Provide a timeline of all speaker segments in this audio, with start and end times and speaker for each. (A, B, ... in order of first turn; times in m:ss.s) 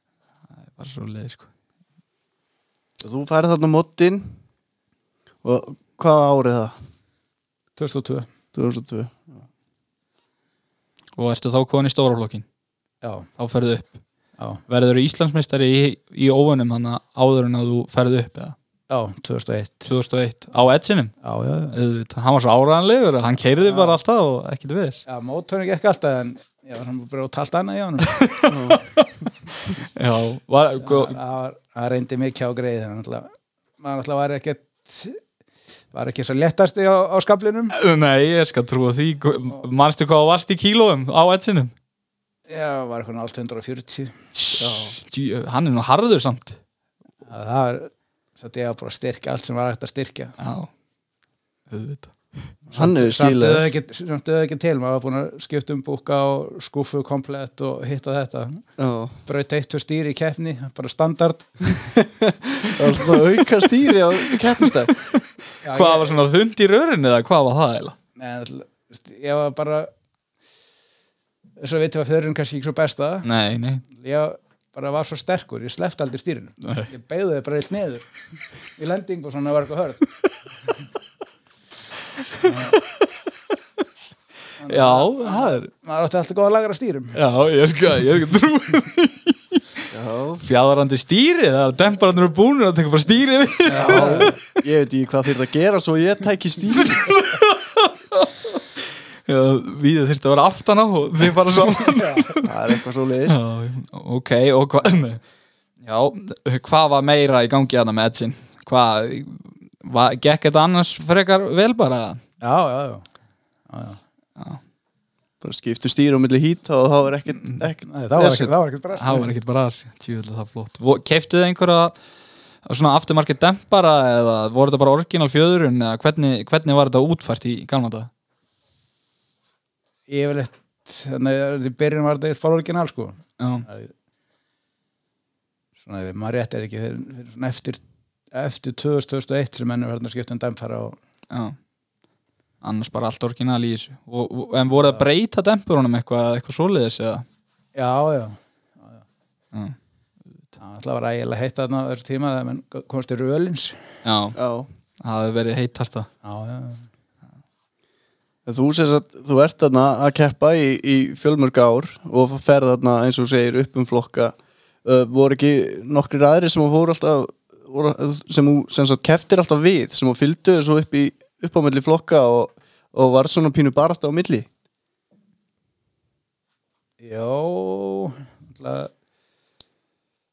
0:00.6-0:01.5 A
0:03.0-0:04.3 B
0:05.4-0:06.7 B
0:07.8-0:08.3 C
0:08.5-0:09.3 B
0:11.2-0:12.4 A
0:13.0-0:13.3 C
0:13.4-0:14.0 A
0:14.7-0:18.6 A
0:18.9-0:19.8 C
0:19.8-0:21.1 A
0:21.2-0:21.8 C
0:21.7-0:25.0 A
0:23.6-0:24.0 C
0:25.1-0:28.3 C
0:28.0-0:31.1 A
0:28.5-0:28.9 B
0:30.8-0:35.2 C
0:35.9-0:37.7 C
0:37.7-0:41.7 A
0:42.5-0:44.2 C
0:44.4-0:46.6 A
0:44.6-0:44.9 B
0:47.2-0:50.3 C
0:50.4-0:50.7 A
0:51.7-0:52.2 A
0:52.7-0:53.6 B
0:52.7-0:58.6 C
0:58.8-0:59.2 B
0:59.2-1:02.0 C
1:02.2-1:05.0 B
1:04.2-1:08.0 A
1:05.6-1:06.3 C
1:08.2-1:09.9 C
1:11.6-1:13.3 C
1:13.2-1:13.8 A
1:13.9-1:18.1 C
1:16.6-1:16.9 A
1:18.8-1:20.0 C
1:22.4-1:22.8 C
1:22.4-1:22.8 A
1:24.6-1:27.2 C
1:24.7-1:25.7 A
1:27.1-1:29.6 A
1:29.9-1:30.4 B
1:30.4-1:34.4 A
1:33.7-1:34.4 C
1:33.8-1:37.1 B
1:36.7-1:38.6 A
1:39.2-1:45.2 A
1:41.7-1:42.3 C
1:42.4-1:43.4 B
1:45.8-1:52.2 A
1:52.4-1:53.0 C
1:53.7-1:54.0 C
1:55.4-1:58.4 B
1:57.8-1:59.3 C
1:58.2-2:02.0 A
2:02.6-2:08.1 A
2:10.1-2:13.9 C
2:13.4-2:13.6 A
2:15.8-2:17.8 C
2:18.3-2:21.0 C
2:21.3-2:21.6 A
2:22.6-2:27.2 A
2:24.7-2:25.0 C
2:27.8-2:29.0 C
2:30.6-2:33.8 C
2:34.0-2:34.4 A
2:34.3-2:34.7 B
2:35.0-2:36.1 A
2:36.2-2:36.9 C
2:38.4-2:54.5 B
2:57.0-2:58.9 C